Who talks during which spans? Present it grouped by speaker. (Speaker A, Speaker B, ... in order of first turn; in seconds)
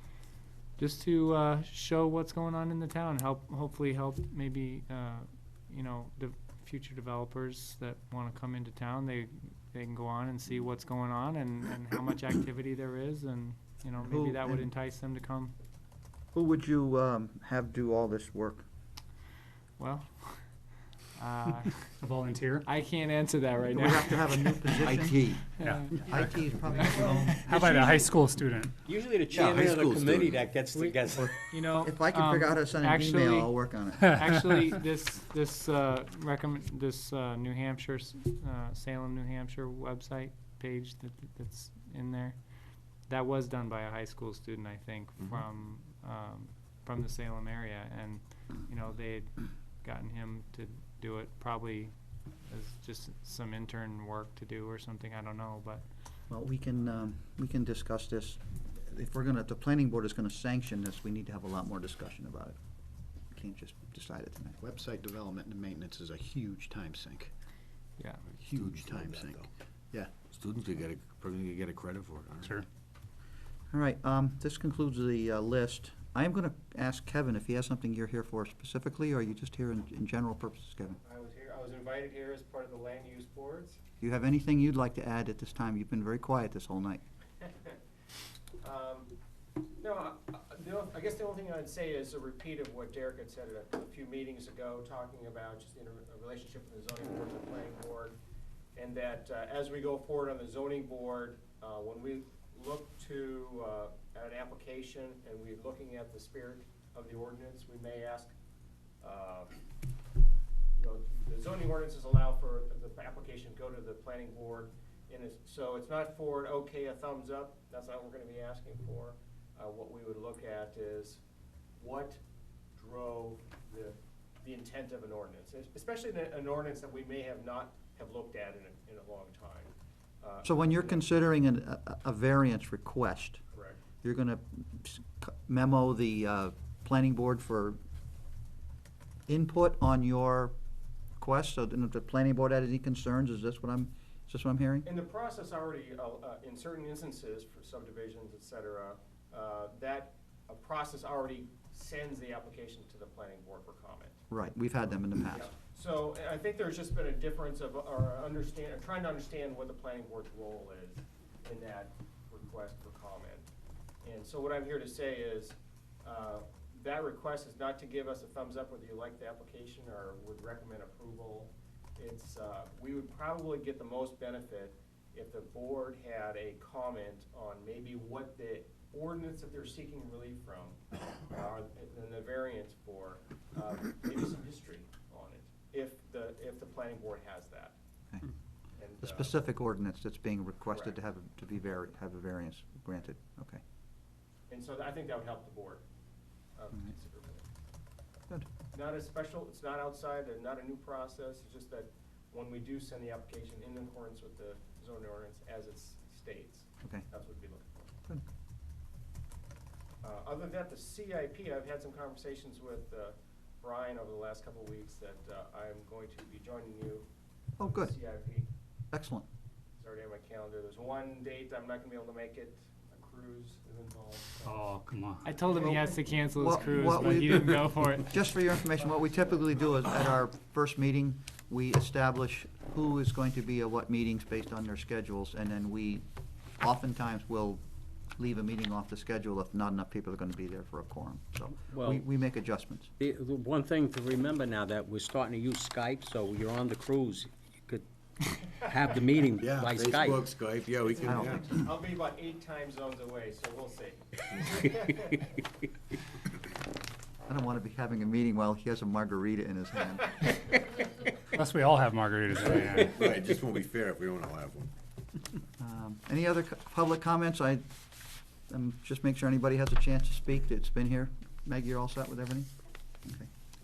Speaker A: 0.8-15.5, 19.8-20.4, 21.2-21.9, 22.6-24.7, 25.6-26.2, 26.8-28.0, 30.7-42.4, 43.1-51.9, 52.5-55.8, 68.0-68.2, 225.2-228.2
Speaker B: 14.0-14.7, 16.3-18.6, 23.7-25.2, 25.9-27.5, 31.2-34.3, 56.3-62.6, 63.3-64.6, 73.7-81.0, 84.0-87.0, 130.4-133.4, 134.0-137.8, 139.3-140.5, 141.2-144.9, 154.3-155.5, 189.0-193.6, 217.6-217.9, 218.9-219.3, 226.4-236.1, 236.6-237.6, 238.2-242.9, 251.0-251.7, 257.3-260.2, 265.6-267.7, 268.5-272.5
Speaker C: 22.0-22.7, 25.6-26.3, 27.4-28.8, 224.4-225.3, 261.3-263.0
Speaker D: 24.8-25.6, 29.3-30.6, 68.4-69.5, 70.3-72.6, 249.3-251.6, 262.4-264.7
Speaker E: 28.9-31.3, 241.7-242.1, 243.0-247.8, 248.6-250.2
Speaker F: 64.6-67.3, 68.4-70.1
Speaker G: 81.0-83.8, 87.4-87.8, 88.6-89.1, 89.8-98.2, 98.8-108.3, 109.0-109.6, 110.8-121.2, 121.8-122.2, 122.8-131.1, 133.5-133.8, 144.8-154.2, 155.3-163.5, 164.0-187.8, 188.8-189.3, 190.7-191.0, 194.5-195.8, 196.6-197.5, 198.7-207.9, 210.0-217.1, 217.6-218.5, 219.8-224.8, 225.3-226.0, 226.5-227.2, 228.9-229.2, 250.9-255.1